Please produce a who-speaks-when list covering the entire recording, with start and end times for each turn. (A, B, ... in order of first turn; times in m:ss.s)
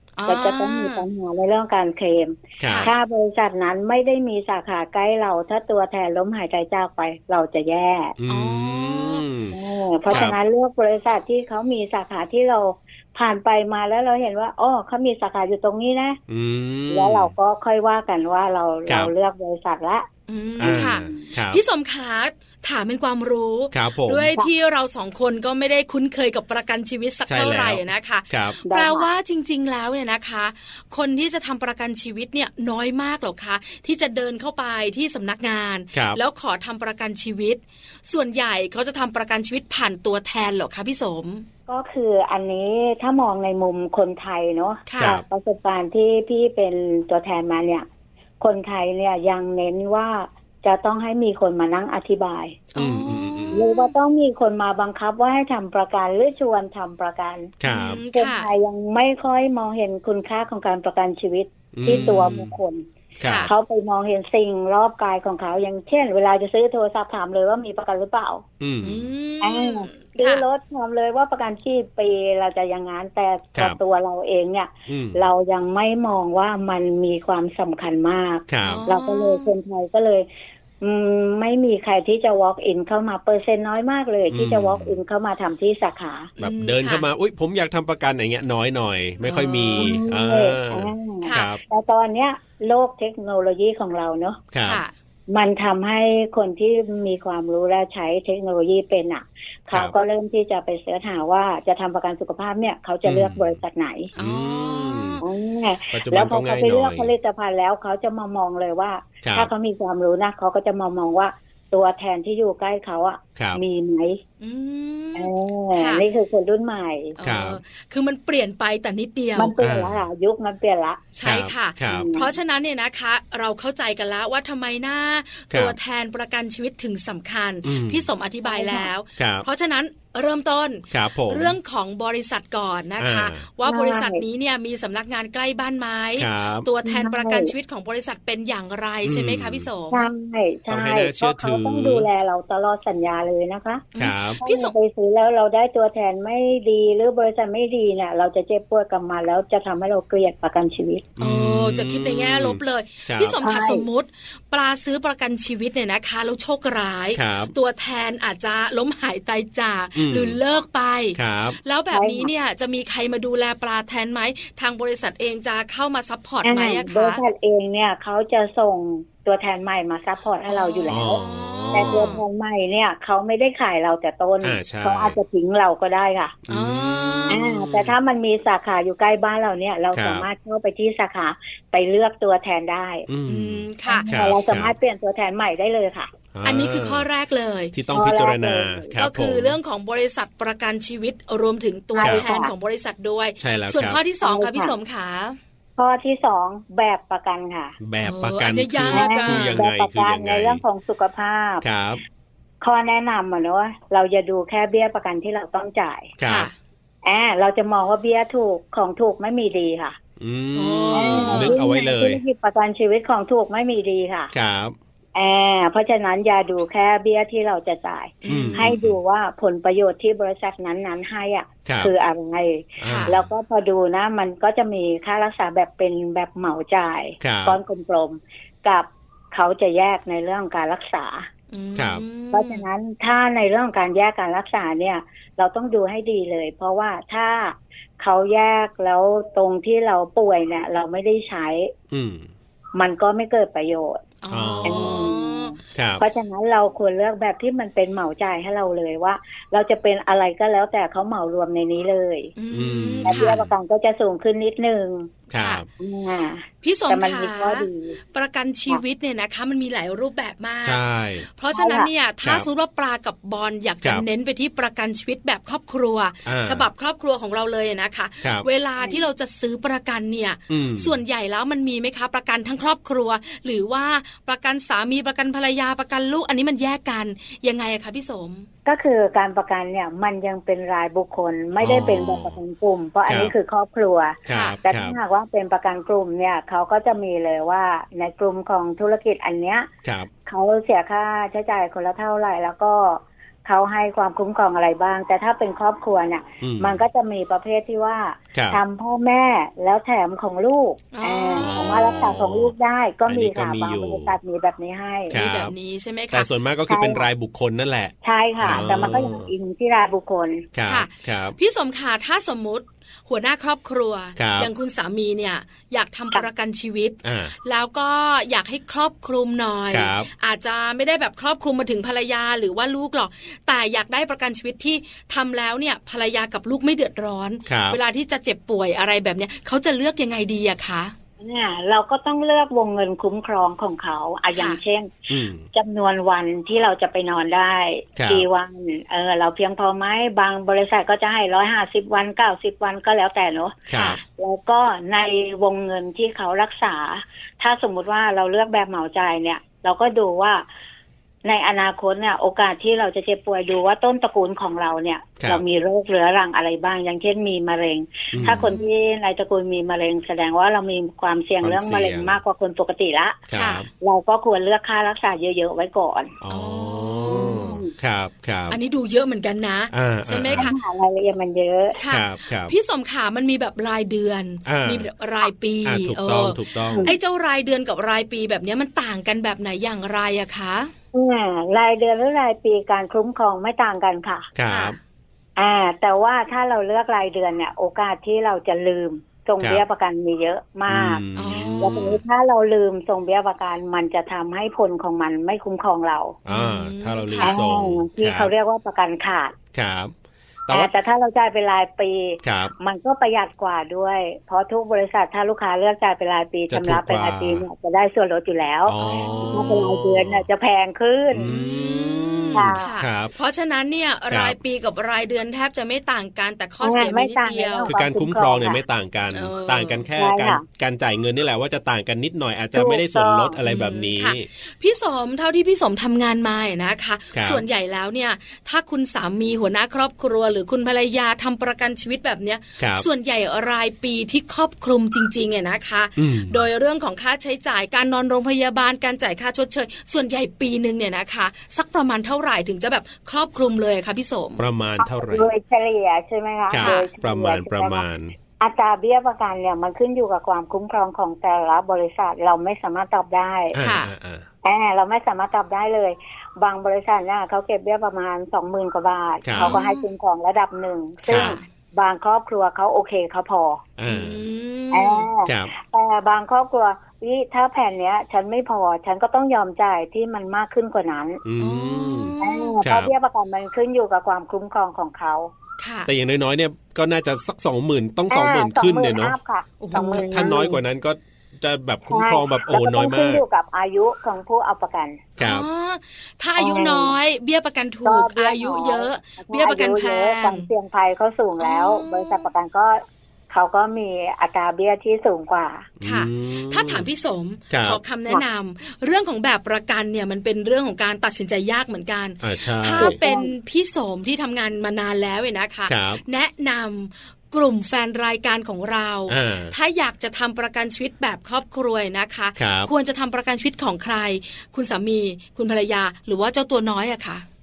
0:00.2-0:01.0 A
0:00.3-0:08.2 B
0:02.6-0:02.9 C
0:02.6-0:02.9 A
0:08.2-0:09.6 C
0:08.3-0:09.2 A
0:09.5-0:16.2 B
0:10.1-0:10.4 C
0:16.3-0:17.3 C
0:16.9-0:20.1 B
0:18.9-0:19.1 C
0:20.3-0:41.5 A
0:20.6-0:21.6 C
0:20.6-0:21.3 B
0:23.7-0:24.3 C
0:27.3-0:28.6 C
0:28.7-0:29.1 B
0:35.9-0:36.2 C
0:41.7-0:47.9 B
0:44.9-0:45.2 A
0:45.0-0:45.2 C
0:48.4-0:52.6 B
0:52.7-0:53.8 A
0:52.8-0:53.6 C
0:53.5-0:57.5 B
0:57.6-0:58.0 C
0:57.6-0:58.5 A
0:58.1-1:02.8 B
1:01.7-1:02.4 C
1:01.9-1:02.5 A
1:03.2-1:03.5 C
1:03.2-1:03.5 A
1:03.4-1:08.4 B
1:08.6-1:09.1 C
1:08.8-1:10.4 A
1:09.4-1:20.3 B
1:14.9-1:15.2 C
1:18.5-1:18.8 C
1:18.6-1:19.5 A
1:20.8-1:26.3 B
1:24.3-1:24.9 C
1:26.4-1:27.1 A
1:26.4-1:31.6 C
1:29.2-1:30.0 A
1:29.8-1:34.4 B
1:31.2-1:31.5 A
1:34.5-1:34.8 C
1:34.6-1:34.9 A
1:35.3-1:44.1 B
1:43.0-1:43.5 C
1:44.2-1:45.2 A
1:44.2-1:45.2 C
1:45.2-1:54.2 B
1:45.9-1:47.1 C
1:49.2-1:49.5 C
1:54.4-1:56.0 A
1:55.2-1:57.2 B
1:57.2-1:59.6 A
1:57.2-1:57.6 C
1:59.4-2:01.0 B
1:59.6-2:00.0 C
2:01.2-2:20.0 A
2:01.2-2:02.1 C
2:01.9-2:02.3 B
2:07.6-2:08.1 C
2:08.4-2:08.9 B
2:09.2-2:09.5 C
2:10.9-2:11.6 C
2:13.0-2:13.4 C
2:13.6-2:14.2 B
2:16.2-2:16.7 C
2:16.8-2:17.5 B
2:19.0-2:19.7 C
2:19.9-2:23.9 B
2:20.7-2:22.1 C
2:24.0-2:24.8 A
2:24.0-2:24.4 C
2:24.4-2:31.1 B
2:31.2-2:33.4 C
2:31.2-2:47.2 A
2:33.4-2:33.8 B
2:37.2-2:37.5 C
2:40.0-2:40.4 C
2:41.2-2:41.6 C
2:41.9-2:42.3 B
2:46.4-2:51.2 B
2:50.5-2:52.2 A
2:50.9-2:52.1 C
2:51.7-2:56.4 B
2:54.4-2:55.2 C
2:56.5-2:57.9 C
2:56.5-2:57.4 A
2:57.3-3:03.1 B
2:59.9-3:00.3 C
3:03.1-3:04.7 C
3:03.3-3:04.1 A
3:03.9-3:06.1 B
3:06.3-3:07.1 C
3:06.4-3:07.8 A
3:07.7-3:09.6 C
3:07.9-3:09.0 B
3:09.0-3:15.4 A
3:12.0-3:12.5 B
3:12.0-3:12.3 C
3:13.4-3:14.0 C
3:14.2-3:14.7 B
3:15.8-3:17.8 B
3:17.8-3:20.6 C
3:18.0-3:19.6 A
3:18.9-3:21.6 B
3:21.6-3:22.0 C
3:22.6-3:26.1 B
3:26.2-3:26.5 C
3:26.2-3:26.5 A
3:27.0-3:30.0 B
3:30.2-3:32.2 C
3:30.5-3:31.6 A
3:30.9-3:34.3 B
3:34.3-3:34.8 C
3:35.2-3:51.3 B
3:38.2-3:38.7 A
3:38.3-3:39.0 C
3:41.7-3:41.9 C
3:42.8-3:43.3 C
3:42.8-3:43.2 A
3:47.2-3:47.6 C
3:51.5-3:52.6 A
3:51.8-3:52.0 C
3:52.3-4:01.7 B
4:01.9-4:02.3 C
4:02.8-4:04.0 B
4:04.2-4:05.5 A
4:04.3-4:05.1 C
4:04.6-4:12.3 B
4:05.8-4:06.0 C
4:12.4-4:13.4 A
4:12.5-4:13.5 C
4:13.0-4:15.1 B
4:15.3-4:15.7 C
4:15.3-4:15.6 A
4:15.8-4:18.0 B
4:16.6-4:38.5 A
4:20.6-4:21.3 C
4:21.5-4:21.9 B
4:26.3-4:26.7 C
4:30.5-4:31.0 C
4:38.7-4:49.7 B
4:41.6-4:42.4 C
4:43.1-4:43.3 C
4:44.3-4:45.0 C
4:44.3-4:44.6 A
4:50.3-5:05.2 B
4:56.4-4:56.8 C
4:58.3-4:58.6 C
5:00.9-5:01.7 A
5:01.4-5:02.5 C
5:03.1-5:04.2 C
5:05.1-5:05.5 C
5:05.1-5:06.3 A
5:06.1-5:09.3 C
5:06.7-5:07.1 B
5:08.0-5:10.5 B
5:08.5-5:08.8 A
5:10.6-5:11.4 C
5:10.7-5:30.9 A
5:14.2-5:14.5 C
5:17.0-5:17.3 C
5:19.7-5:20.1 C
5:27.5-5:27.8 C
5:31.2-5:50.4 B
5:35.1-5:35.4 C
5:38.0-5:38.3 C
5:43.7-5:44.0 C
5:43.7-5:44.0 A
5:51.2-6:03.2 B
5:58.1-5:58.5 C
5:58.2-5:58.7 A
6:01.4-6:02.2 C
6:03.3-6:03.7 C
6:03.3-6:03.7 A
6:03.8-6:06.1 B
6:06.2-6:08.6 C
6:06.3-6:07.5 A
6:07.1-6:07.7 B
6:08.5-6:10.6 A
6:09.7-6:10.5 C
6:10.3-6:11.8 B
6:11.8-6:20.7 A
6:11.9-6:12.6 C
6:14.4-6:14.9 C
6:15.6-6:16.9 C
6:16.7-6:17.0 B
6:20.9-6:24.3 B
6:24.4-6:24.8 C
6:24.5-6:24.8 A
6:25.4-6:31.0 B
6:30.7-6:32.0 C
6:31.2-6:32.0 A
6:31.6-6:36.2 B
6:36.2-6:38.3 C
6:36.3-6:37.5 A
6:37.2-6:39.3 B
6:39.5-6:39.9 C
6:40.5-6:40.7 C
6:40.5-6:48.8 B
6:42.2-6:42.5 C
6:46.5-6:47.4 C
6:48.6-6:50.2 C
6:48.8-6:49.5 A
6:49.3-6:51.3 B
6:51.1-6:53.1 C
6:51.2-6:57.7 A
6:52.3-6:52.7 B
6:54.1-6:54.4 C
6:56.6-6:58.6 B
6:57.7-7:04.3 C
6:59.1-6:59.8 A
7:00.0-7:00.4 B
7:02.6-7:03.4 B
7:03.5-7:24.4 A
7:07.2-7:07.4 C
7:12.6-7:12.9 C
7:16.0-7:16.5 C
7:24.4-7:25.3 C
7:24.8-7:27.8 B
7:26.5-7:28.1 C
7:26.6-7:26.9 A
7:28.4-7:33.6 B
7:33.5-7:34.3 C
7:33.6-7:33.9 A
7:34.4-7:43.6 B
7:39.2-7:39.6 C
7:39.4-7:39.8 A
7:41.1-7:41.4 C
7:41.1-7:41.4 A
7:43.8-7:44.2 C
7:43.9-7:45.1 A
7:44.7-7:51.2 B
7:45.3-7:45.5 C
7:51.2-7:52.9 C
7:51.4-7:52.6 A
7:52.2-7:55.3 B
7:55.6-7:55.9 A
7:55.9-7:59.2 C
7:58.1-8:00.6 B
7:59.6-8:00.1 A
7:59.9-8:03.2 C
8:01.9-8:05.0 B
8:05.2-8:05.5 C
8:05.2-8:10.5 A
8:06.4-8:06.9 B
8:07.8-8:15.7 B
8:11.4-8:12.3 A
8:15.8-8:16.9 C
8:15.8-8:37.2 A
8:17.5-8:17.8 C
8:22.2-8:23.0 C
8:22.8-8:23.3 B
8:25.7-8:26.0 C
8:29.1-8:29.5 C
8:32.4-8:32.7 C